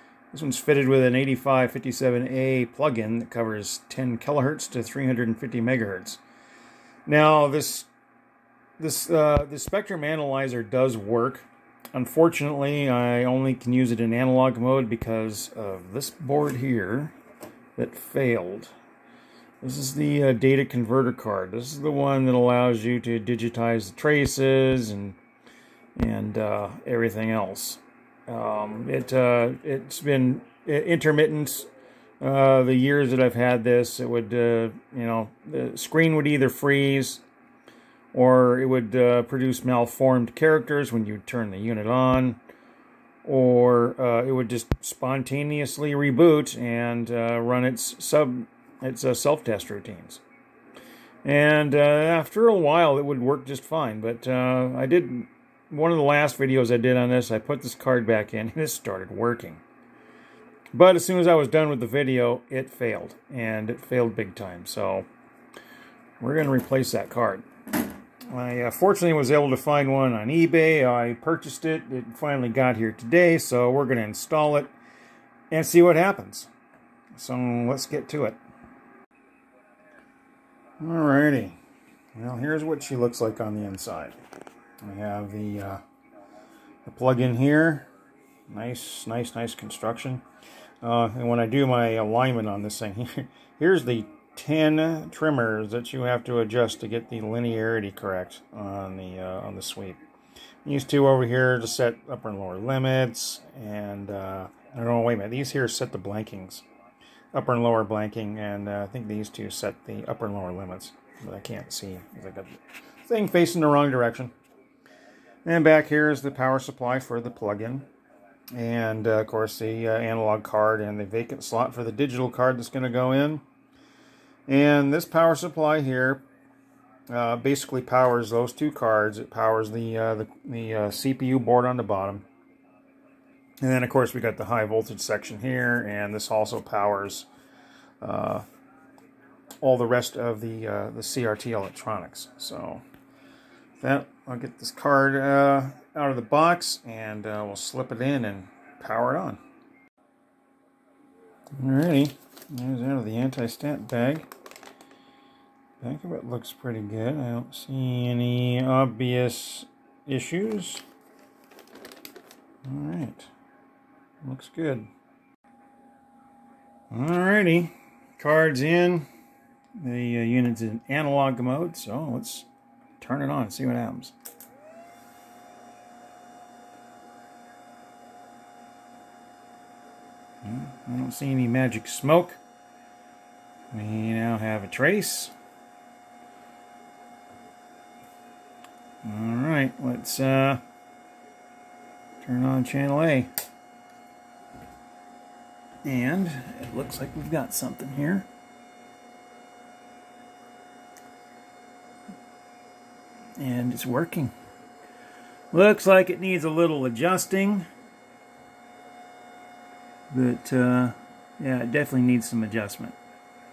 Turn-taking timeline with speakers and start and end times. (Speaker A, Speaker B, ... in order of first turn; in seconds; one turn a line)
Speaker A: 0.3-6.2
Speaker A: 7.1-7.9
Speaker A: 8.8-17.2
Speaker A: 17.8-18.7
Speaker A: 19.6-25.2
Speaker A: 26.0-31.7
Speaker A: 32.2-37.2
Speaker A: 38.1-42.4
Speaker A: 43.2-50.2
Speaker A: 51.2-59.6
Speaker A: 60.7-65.1
Speaker A: 66.2-67.5
Speaker A: 68.3-74.7
Speaker A: 75.5-76.5
Speaker A: 77.1-78.4
Speaker A: 80.8-81.6
Speaker A: 82.2-84.2
Speaker A: 84.8-85.8
Speaker A: 86.8-87.9
Speaker A: 88.5-90.2
Speaker A: 90.8-100.0
Speaker A: 100.6-106.7
Speaker A: 107.3-114.3
Speaker A: 115.5-117.9
Speaker A: 118.5-123.4
Speaker A: 124.5-126.2
Speaker A: 127.1-132.3
Speaker A: 133.6-137.3
Speaker A: 138.0-138.4
Speaker A: 139.6-142.8
Speaker A: 143.8-149.4
Speaker A: 151.6-154.3
Speaker A: 155.8-160.8
Speaker A: 162.6-163.3
Speaker A: 164.2-164.9
Speaker A: 166.9-169.1
Speaker A: 169.8-172.5
Speaker A: 173.0-174.1
Speaker A: 180.4-182.4
Speaker A: 183.7-185.3
Speaker A: 189.0-190.6
Speaker A: 192.2-193.3
Speaker A: 195.8-198.3
Speaker A: 203.4-204.3
Speaker A: 205.5-207.7
Speaker A: 210.1-213.0